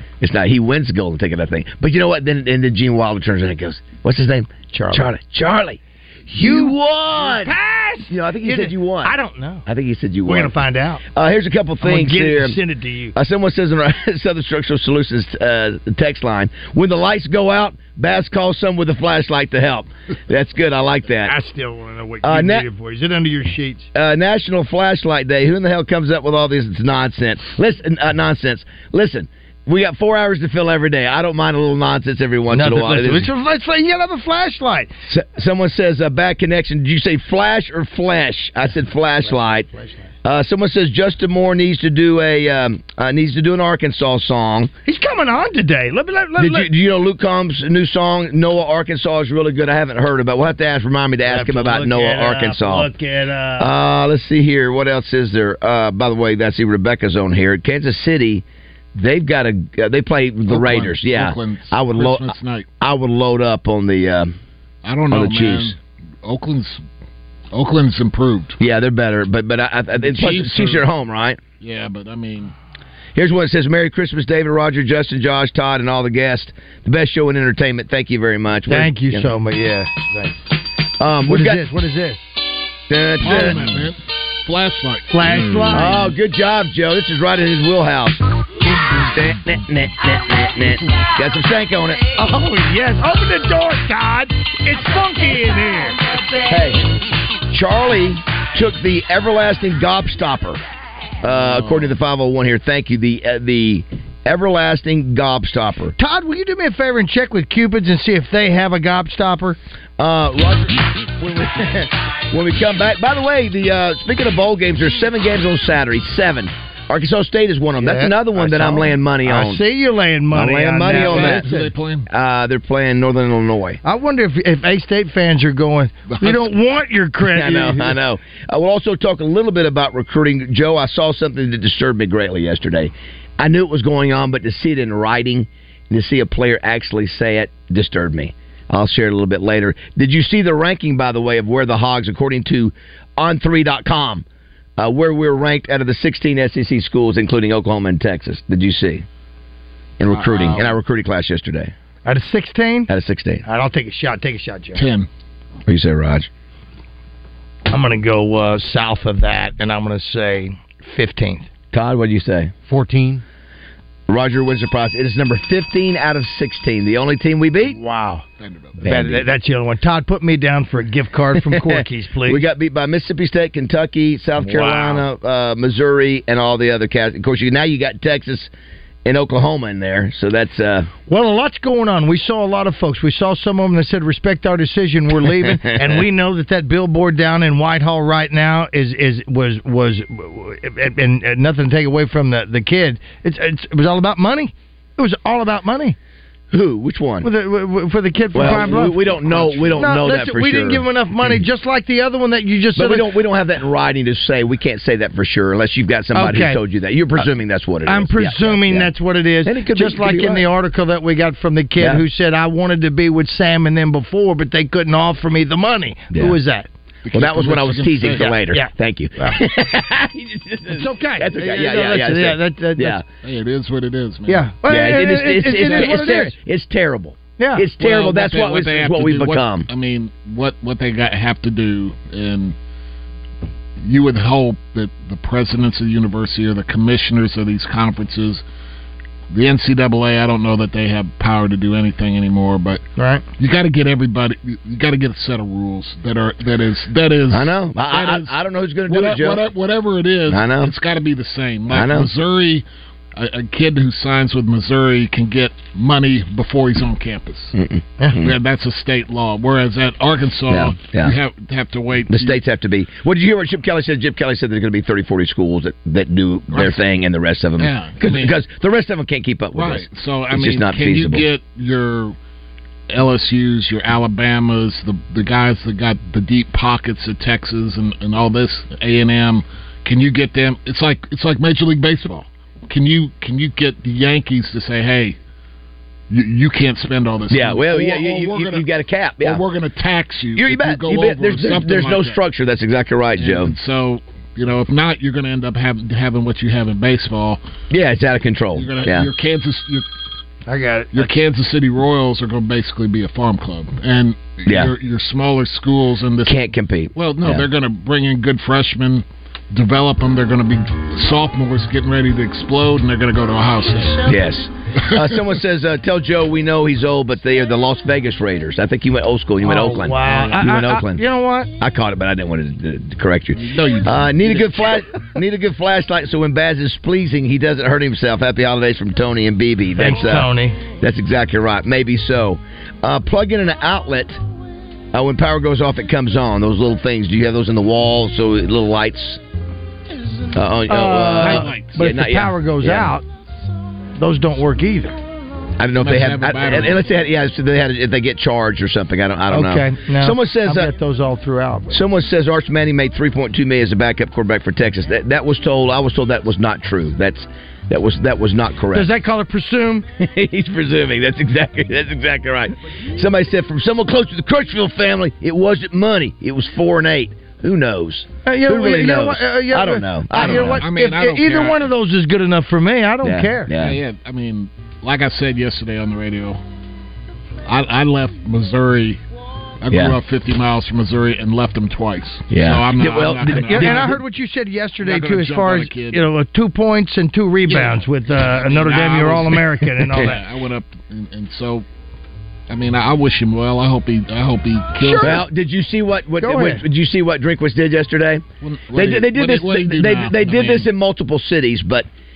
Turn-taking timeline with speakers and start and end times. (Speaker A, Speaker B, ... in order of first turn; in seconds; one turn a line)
Speaker A: 0.2-7.5
Speaker B: 4.7-5.1
Speaker B: 6.3-9.6
Speaker A: 8.1-9.1
Speaker A: 9.7-10.5
Speaker B: 10.3-11.0
Speaker A: 11.1-12.6
Speaker B: 11.8-13.2
Speaker A: 13.1-21.3
Speaker B: 21.3-23.9
Speaker A: 22.2-22.7
Speaker A: 23.9-33.3
Speaker B: 32.5-34.9
Speaker A: 35.1-39.7
Speaker B: 39.2-40.1
Speaker A: 40.2-44.7
Speaker B: 44.9-46.7
Speaker A: 46.4-52.9
Speaker B: 51.3-53.7
Speaker A: 53.6-64.4
Speaker C: 60.5-62.7
Speaker C: 64.8-66.8
Speaker A: 65.1-65.7
Speaker C: 67.5-68.6
Speaker A: 68.6-71.4
Speaker C: 70.0-70.9
Speaker C: 71.6-72.5
Speaker A: 73.2-79.3
Speaker B: 78.7-80.4
Speaker A: 81.0-81.6
Speaker B: 81.2-82.2
Speaker A: 82.9-83.7
Speaker C: 83.2-86.0
Speaker B: 83.3-83.7
Speaker B: 85.1-86.0
Speaker A: 85.7-88.2
Speaker A: 89.1-92.0
Speaker B: 92.2-96.0
Speaker A: 96.4-96.9
Speaker A: 97.5-100.6
Speaker A: 101.2-106.0
Speaker B: 106.0-109.6
Speaker A: 110.0-119.6
Speaker B: 117.8-121.7
Speaker A: 120.3-121.5
Speaker C: 120.8-122.1
Speaker A: 122.1-123.8
Speaker B: 123.8-128.0
Speaker C: 126.1-126.5
Speaker A: 127.3-144.2
Speaker A: 144.8-149.1
Speaker A: 150.0-151.7
Speaker C: 150.1-150.8
Speaker B: 152.1-152.9
Speaker A: 152.9-153.4
Speaker B: 153.5-154.8
Speaker C: 154.7-155.1
Speaker A: 155.7-156.3
Speaker B: 157.7-161.5
Speaker A: 161.7-162.5
Speaker B: 162.7-163.2
Speaker A: 164.1-167.8
Speaker B: 167.7-168.2
Speaker C: 168.4-168.8
Speaker A: 168.8-169.2
Speaker B: 168.8-172.4
Speaker A: 171.3-178.5
Speaker B: 174.4-175.1
Speaker A: 179.1-180.9
Speaker B: 181.1-196.0
Speaker A: 185.3-186.0
Speaker A: 196.5-197.3
Speaker B: 197.2-199.0
Speaker A: 198.3-200.8
Speaker C: 198.4-199.9
Speaker B: 199.7-203.1
Speaker A: 202.8-208.9
Speaker B: 206.2-206.6
Speaker B: 207.9-216.7
Speaker A: 209.4-210.4
Speaker A: 211.8-212.0
Speaker A: 216.1-216.4
Speaker C: 217.1-218.4
Speaker A: 217.1-223.0
Speaker B: 218.2-219.4
Speaker B: 220.7-223.0
Speaker C: 223.2-224.5
Speaker B: 224.3-226.3
Speaker A: 224.7-229.7
Speaker B: 227.4-227.7
Speaker C: 227.8-232.6
Speaker C: 233.8-238.4
Speaker C: 239.3-242.8
Speaker B: 243.0-243.2
Speaker C: 243.4-248.3
Speaker A: 247.3-249.5
Speaker C: 248.9-252.6
Speaker A: 250.3-250.7
Speaker A: 251.7-252.1
Speaker C: 253.2-257.6
Speaker A: 257.5-258.4
Speaker C: 258.2-262.4
Speaker A: 260.5-261.2
Speaker A: 262.1-271.3
Speaker C: 266.5-266.8
Speaker C: 267.6-268.4
Speaker C: 269.6-272.2
Speaker C: 272.9-285.2
Speaker C: 286.1-288.6
Speaker A: 287.3-289.4
Speaker C: 289.2-292.2
Speaker A: 290.4-293.6
Speaker C: 293.2-297.4
Speaker A: 297.7-299.1
Speaker C: 298.6-299.9
Speaker B: 300.5-301.1
Speaker C: 300.9-314.1
Speaker A: 304.5-304.7
Speaker A: 306.3-307.5
Speaker A: 314.0-321.0
Speaker C: 314.9-315.2
Speaker B: 319.4-321.5
Speaker C: 320.1-320.4
Speaker A: 321.6-334.2
Speaker C: 323.4-324.7
Speaker B: 329.8-330.6
Speaker A: 334.9-339.2
Speaker A: 340.3-342.9
Speaker B: 340.7-343.0
Speaker C: 341.2-341.8
Speaker B: 344.0-345.0
Speaker A: 345.6-350.7
Speaker C: 345.8-346.8
Speaker B: 349.3-351.8
Speaker A: 351.7-358.9
Speaker B: 358.7-359.9
Speaker A: 360.0-370.6
Speaker B: 368.2-373.5
Speaker C: 370.1-371.7
Speaker A: 373.0-373.8
Speaker C: 373.6-376.4
Speaker C: 377.5-379.0
Speaker C: 379.6-384.0
Speaker A: 379.7-380.0
Speaker A: 382.3-384.0
Speaker B: 383.5-390.2
Speaker C: 384.8-386.0
Speaker C: 387.5-391.6
Speaker C: 392.5-395.2
Speaker B: 394.8-395.2
Speaker A: 395.0-401.9
Speaker B: 396.2-396.6
Speaker C: 398.4-400.7